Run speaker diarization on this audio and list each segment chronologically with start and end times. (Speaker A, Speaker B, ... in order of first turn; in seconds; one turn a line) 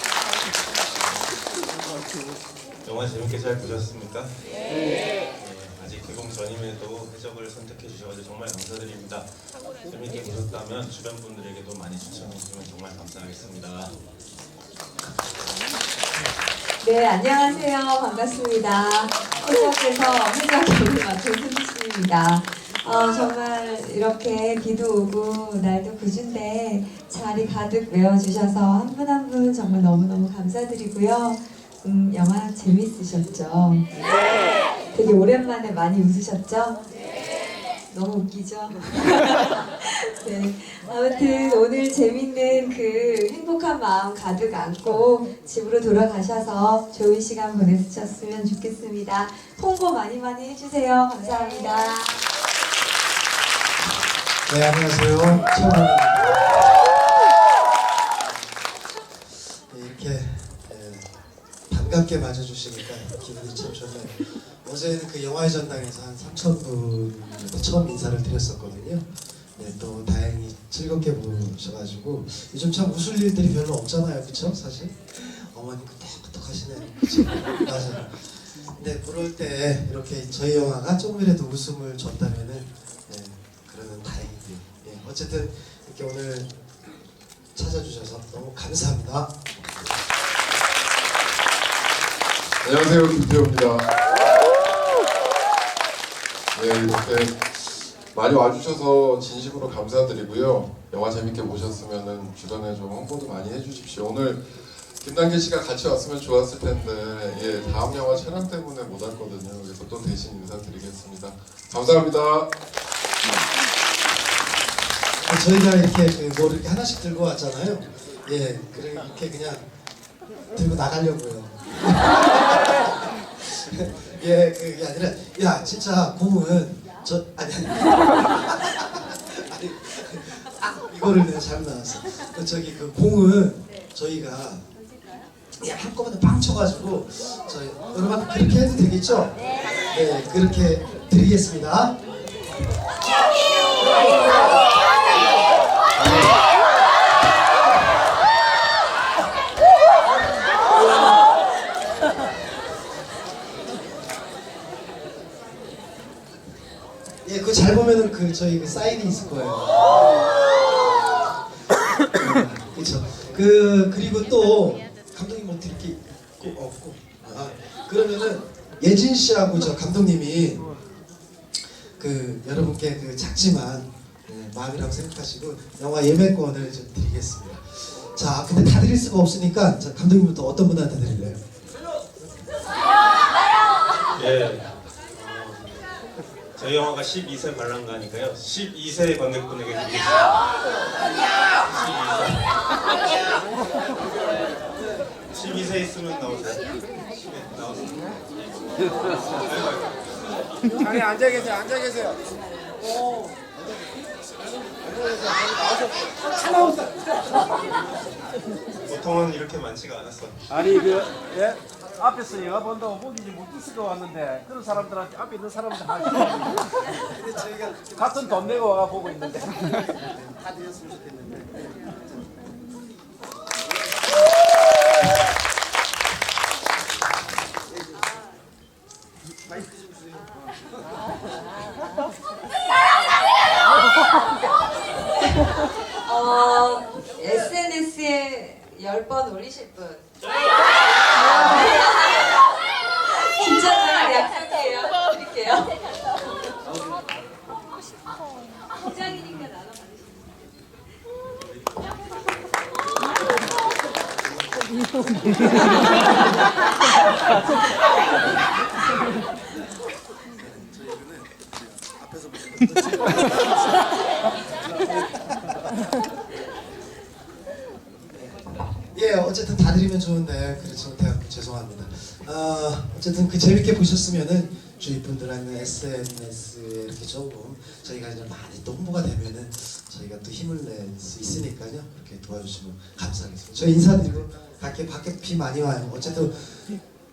Speaker A: 2.9-4.3
Speaker A: 5.4-9.3
Speaker A: 9.9-13.9
Speaker B: 16.8-33.9
Speaker B: 34.9-36.8
Speaker B: 37.9-52.3
Speaker C: 54.5-56.8
Speaker C: 59.3-61.1
Speaker C: 61.7-86.5
Speaker C: 87.5-89.4
Speaker D: 92.6-93.9
Speaker D: 96.5-112.5
Speaker C: 115.2-119.7
Speaker C: 120.5-134.7
Speaker C: 135.6-142.0
Speaker C: 146.0-146.4
Speaker C: 157.2-161.4
Speaker C: 162.1-170.7
Speaker C: 171.6-181.4
Speaker A: 184.1-185.7
Speaker A: 186.6-190.4
Speaker A: 191.7-192.6
Speaker A: 195.3-198.2
Speaker A: 198.9-200.0
Speaker A: 200.7-201.9
Speaker E: 206.6-206.9
Speaker A: 208.8-210.4
Speaker E: 210.6-216.4
Speaker C: 217.0-219.1
Speaker E: 218.2-219.7
Speaker C: 220.3-221.6
Speaker B: 236.0-240.1
Speaker B: 241.2-245.9
Speaker B: 248.7-250.3
Speaker C: 262.6-263.2
Speaker C: 268.1-286.8